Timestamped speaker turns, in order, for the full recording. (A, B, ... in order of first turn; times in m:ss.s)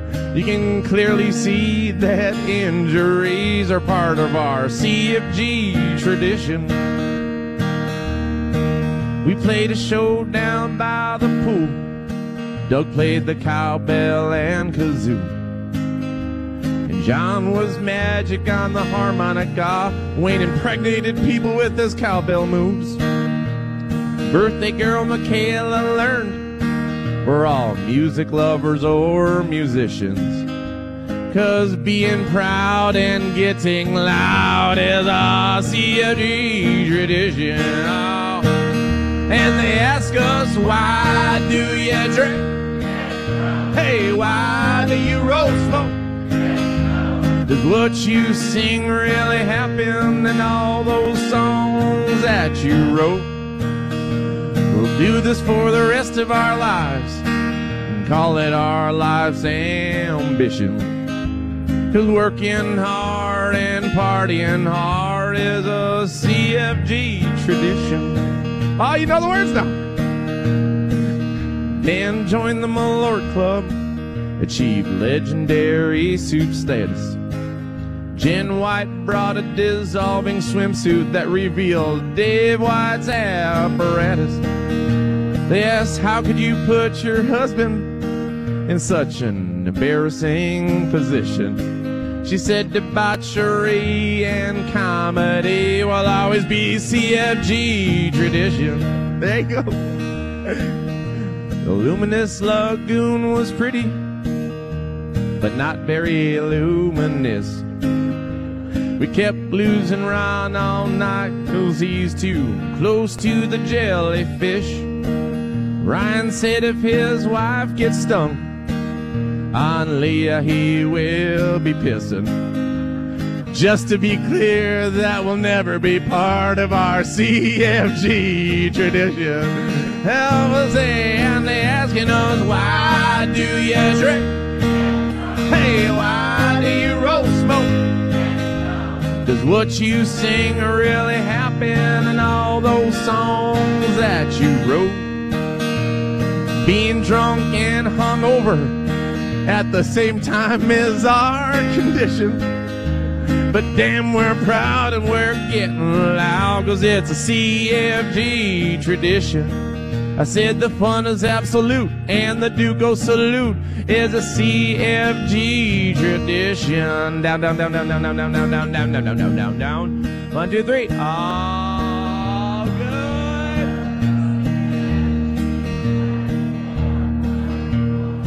0:00.3-0:06.8 A
0:09.2-0:11.9 A
0:12.6-0:15.4 A
0:16.8-0:23.0 A
0:24.2-0:26.5 A
0:27.2-0:30.5 A
0:31.3-0:38.7 A
0:39.2-0:42.6 A
0:43.7-0:46.0 A
0:47.4-0:53.3 A
0:54.6-0:57.2 A
0:57.8-1:01.0 A
1:01.9-1:09.8 A
1:11.7-1:13.8 A
1:14.4-1:17.2 A
1:18.1-1:24.4 A
1:25.4-1:28.0 A
1:28.6-1:39.8 A
1:41.6-1:44.0 A
1:45.4-1:47.6 A
1:49.0-1:54.9 A
1:55.8-1:58.5 A
1:59.5-2:02.5 A
2:03.5-2:14.4 A
2:15.4-2:18.0 A
2:19.2-2:25.1 A
2:26.6-2:28.8 A
2:29.4-2:32.4 A
2:33.3-2:39.6 A
2:40.1-2:53.8 A